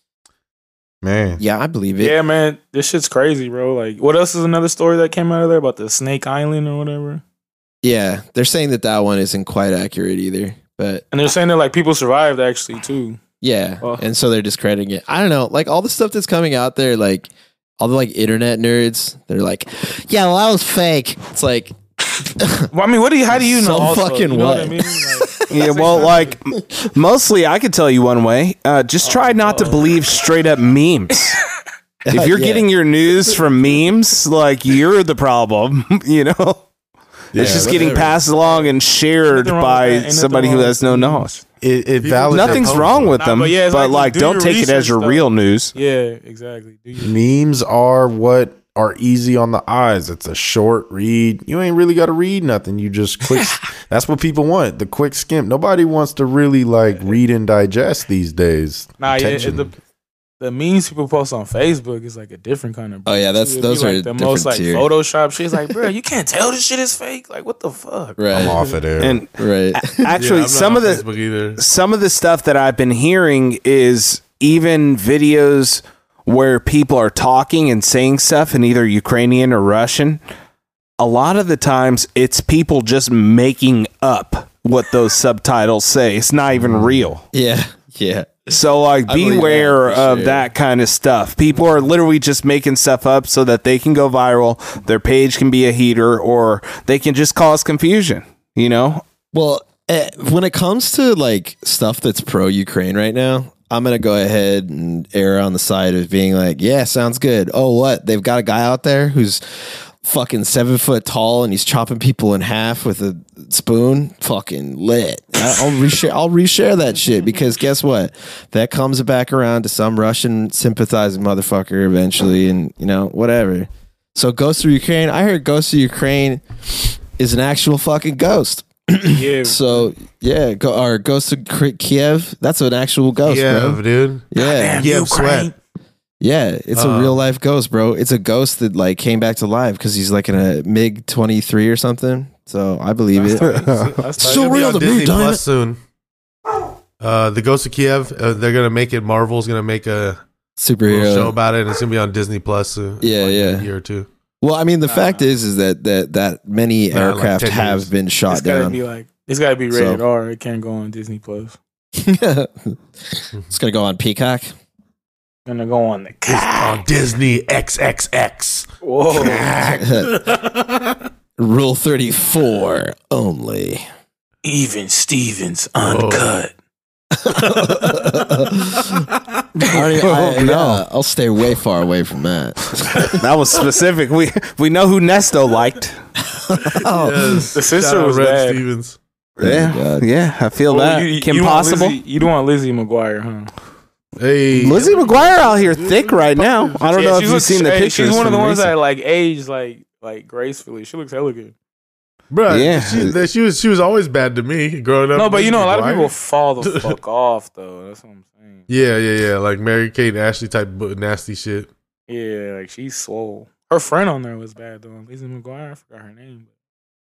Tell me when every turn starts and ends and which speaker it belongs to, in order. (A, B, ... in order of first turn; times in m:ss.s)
0:01.0-0:01.4 A
0:01.4-0:02.2 B
0:02.0-0:07.2 C
0:07.8-0:11.0 B
0:11.1-0:13.2 C
0:13.4-0:22.7 B
0:22.7-0:26.4 C
0:23.3-0:25.3 B
0:25.5-0:31.4 D
0:29.1-0:30.0 C
0:32.1-0:32.7 B
0:32.1-0:36.7 D
0:37.3-0:41.4 D
0:37.4-0:37.9 A
0:37.4-0:38.1 B
0:38.4-0:38.7 C
0:39.3-0:41.3 C
0:41.6-0:43.1 A
0:42.0-0:43.1 E
0:42.3-0:45.7 D
0:43.2-0:47.1 C
0:47.0-0:59.7 A
0:59.0-0:59.7 C
1:00.4-1:08.6 C
1:03.1-1:04.9 B
1:08.2-1:08.6 B
1:08.3-1:09.2 A
1:09.0-1:20.2 D
1:09.4-1:10.1 B
1:10.2-1:11.6 E
1:21.0-1:27.2 D
1:27.3-1:30.5 B
1:28.5-1:39.0 D
1:39.3-2:14.9 B
2:09.0-2:09.9 C
2:13.3-2:15.6 E
2:14.4-2:15.5 C
2:16.2-2:25.4 B
2:16.7-2:17.2 E
2:23.2-2:25.8 E
2:24.0-2:24.8 C
2:27.0-2:30.2 E
2:30.6-2:31.3 B
2:30.9-2:34.1 E
2:33.0-2:33.7 B
2:34.4-2:38.8 B
2:34.8-2:35.3 C
2:36.9-2:37.9 E
2:38.3-2:41.6 C
2:39.7-2:40.0 B
2:42.0-2:44.5 B
2:45.5-2:46.8 C
2:46.3-2:51.0 E
2:48.8-2:49.5 C
2:49.7-2:50.2 B
2:51.4-2:53.9 B
2:54.4-2:56.5 C
2:55.8-2:56.3 E
2:57.1-2:59.1 B
2:57.4-2:59.0 E
2:59.6-3:03.2 B
2:59.7-3:00.8 D
3:03.0-3:06.0 D
3:06.3-3:07.5 B
3:06.8-3:09.0 E
3:07.5-3:08.6 C
3:09.4-3:12.0 D
3:09.4-3:10.1 B
3:10.7-3:13.5 C
3:14.2-3:16.8 E
3:14.6-3:18.7 D
3:16.9-3:21.5 C
3:22.3-3:26.1 E
3:22.5-3:23.2 D
3:25.2-3:28.6 C
3:26.6-3:26.9 E
3:28.7-3:31.7 E
3:32.1-3:36.5 C